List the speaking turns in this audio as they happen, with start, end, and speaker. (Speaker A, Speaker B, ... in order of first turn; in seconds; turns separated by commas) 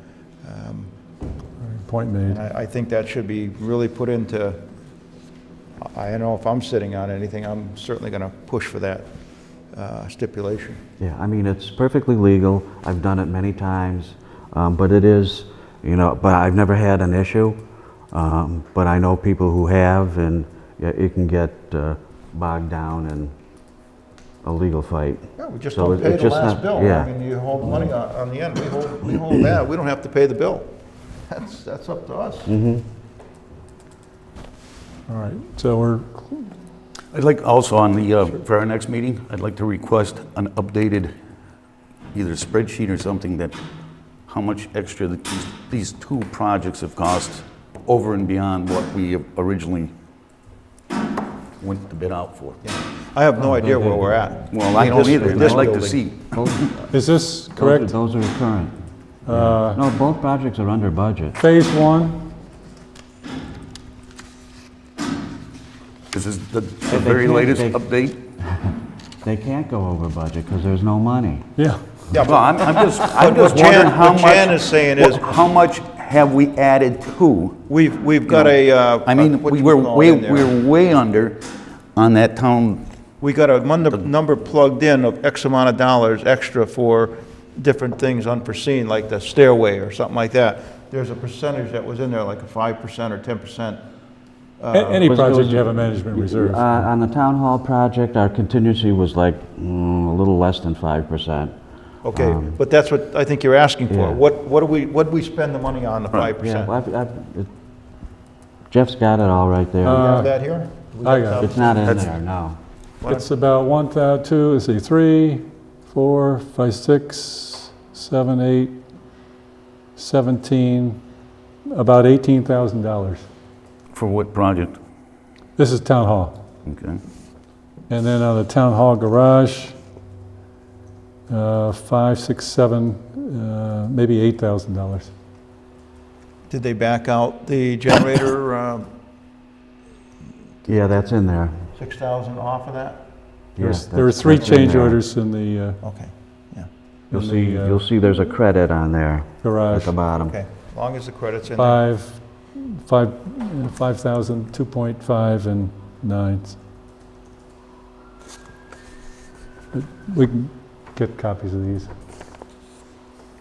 Speaker A: 0.4-0.9, Speaker B: 1.6-2.4, Speaker A: 2.2-4.6, Speaker A: 5.8-9.1, Speaker A: 9.7-10.8, Speaker C: 11.0-17.6, Speaker C: 18.1-23.3, Speaker C: 24.4-25.2, Speaker A: 25.4-30.7, Speaker C: 25.7-27.1, Speaker A: 31.3-32.5, Speaker C: 32.5-32.8, Speaker B: 35.1-36.5, Speaker D: 37.1-41.1, Speaker D: 42.1-43.6, Speaker D: 44.3-49.9, Speaker D: 51.6-52.6, Speaker A: 52.6-56.0, Speaker D: 54.5-56.5, Speaker C: 55.0-55.8, Speaker C: 56.3-56.8, Speaker B: 56.9-57.9, Speaker C: 57.5-58.7, Speaker B: 59.2-59.8, Speaker C: 59.3-61.4, Speaker B: 61.4-62.2, Speaker D: 66.1-68.2, Speaker C: 66.9-67.8, Speaker C: 68.4-71.5, Speaker B: 71.6-71.8, Speaker A: 72.1-75.3, Speaker D: 72.1-77.6, Speaker A: 77.7-80.5, Speaker D: 78.3-81.4, Speaker D: 82.0-82.8, Speaker A: 83.2-93.8, Speaker A: 94.6-95.1, Speaker B: 94.7-96.8, Speaker C: 95.0-101.5, Speaker A: 102.0-106.7, Speaker C: 102.1-102.6, Speaker C: 103.9-104.2, Speaker C: 106.4-107.5, Speaker C: 108.7-110.1, Speaker B: 109.8-110.3, Speaker A: 109.8-112.0, Speaker B: 111.0-111.5, Speaker C: 111.4-112.6, Speaker D: 111.8-112.1, Speaker A: 113.0-113.3, Speaker B: 113.0-118.8, Speaker B: 120.0-121.0, Speaker B: 121.7-123.2, Speaker D: 123.9-124.8, Speaker B: 125.6-126.4, Speaker D: 126.7-127.0, Speaker B: 127.9-129.8, Speaker B: 131.3-135.1, Speaker A: 136.5-138.9, Speaker C: 140.6-141.6, Speaker A: 141.8-143.0, Speaker C: 143.6-145.0, Speaker B: 143.6-145.8, Speaker A: 144.4-144.8, Speaker A: 145.8-146.7, Speaker B: 147.1-147.8, Speaker C: 147.1-150.3, Speaker B: 149.4-149.9, Speaker A: 150.2-151.8, Speaker B: 151.5-156.6, Speaker B: 159.7-161.9